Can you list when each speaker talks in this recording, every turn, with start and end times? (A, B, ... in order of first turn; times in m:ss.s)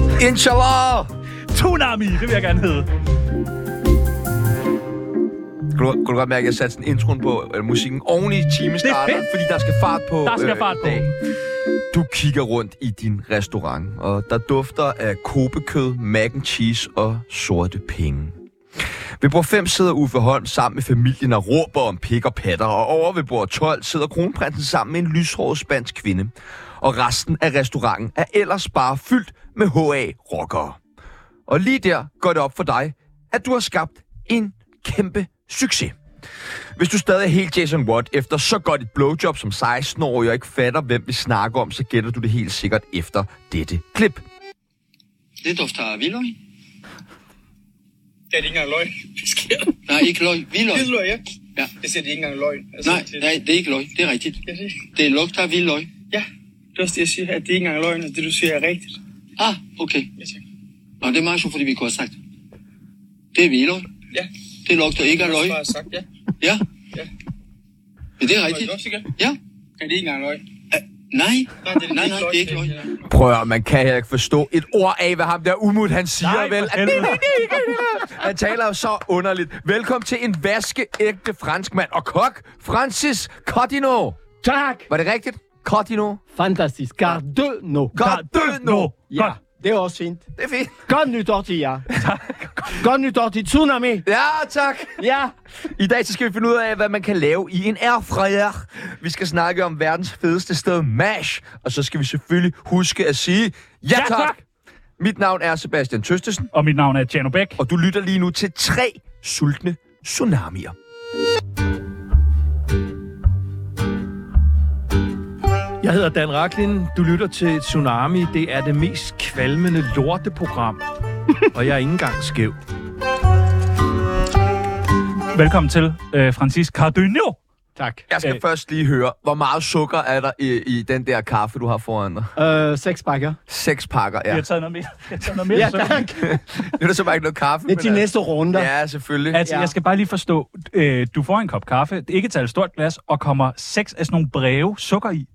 0:00.2-0:01.1 A
0:01.5-0:02.9 B
0:05.7-0:11.1 A
0:08.8-0:09.2 B
0:10.2-0:11.1 B
0:11.9-0:18.4 A
0:19.2-0:30.8 A
0:31.5-0:36.0 A
0:36.8-0:44.2 A
0:45.4-0:46.4 C
0:48.3-0:49.8 D
0:49.9-0:50.9 C
0:50.7-0:53.3 D
0:52.8-0:54.4 C
0:54.4-0:54.9 D
0:54.9-0:55.9 C
0:56.1-0:59.0 D
0:59.4-1:00.1 C
1:01.0-1:02.1 C
1:03.3-1:03.9 C
1:04.6-1:05.7 C
1:05.0-1:06.0 D
1:08.2-1:09.4 C
1:08.4-1:09.1 D
1:09.8-1:10.4 D
1:10.7-1:12.8 C
1:11.6-1:13.0 D
1:13.1-1:24.2 A
1:16.2-1:17.8 B
1:17.0-1:17.9 E
1:24.4-1:24.9 E
1:24.9-1:26.2 A
1:26.3-1:27.9 E
1:27.9-1:28.9 A
1:28.0-1:29.3 B
1:29.1-1:30.3 E
1:30.4-1:30.7 A
1:30.8-1:31.9 E
1:32.0-1:32.8 B
1:32.7-1:34.0 E
1:34.0-1:35.0 A
1:35.0-1:35.3 E
1:35.7-1:44.3 A
1:43.9-1:44.4 B
1:45.0-1:46.5 A
1:46.5-1:47.6 B
1:47.6-1:50.7 A
1:55.8-2:00.8 F
2:01.5-2:02.6 F
2:05.3-2:07.4 B
2:07.8-2:08.0 E
2:08.1-2:12.3 A
2:12.4-2:13.4 E
2:13.5-2:14.4 A
2:14.3-2:16.1 B
2:15.5-2:16.3 E
2:16.2-2:19.4 A
2:17.6-2:18.7 E
2:19.3-2:25.2 B
2:19.4-2:19.7 E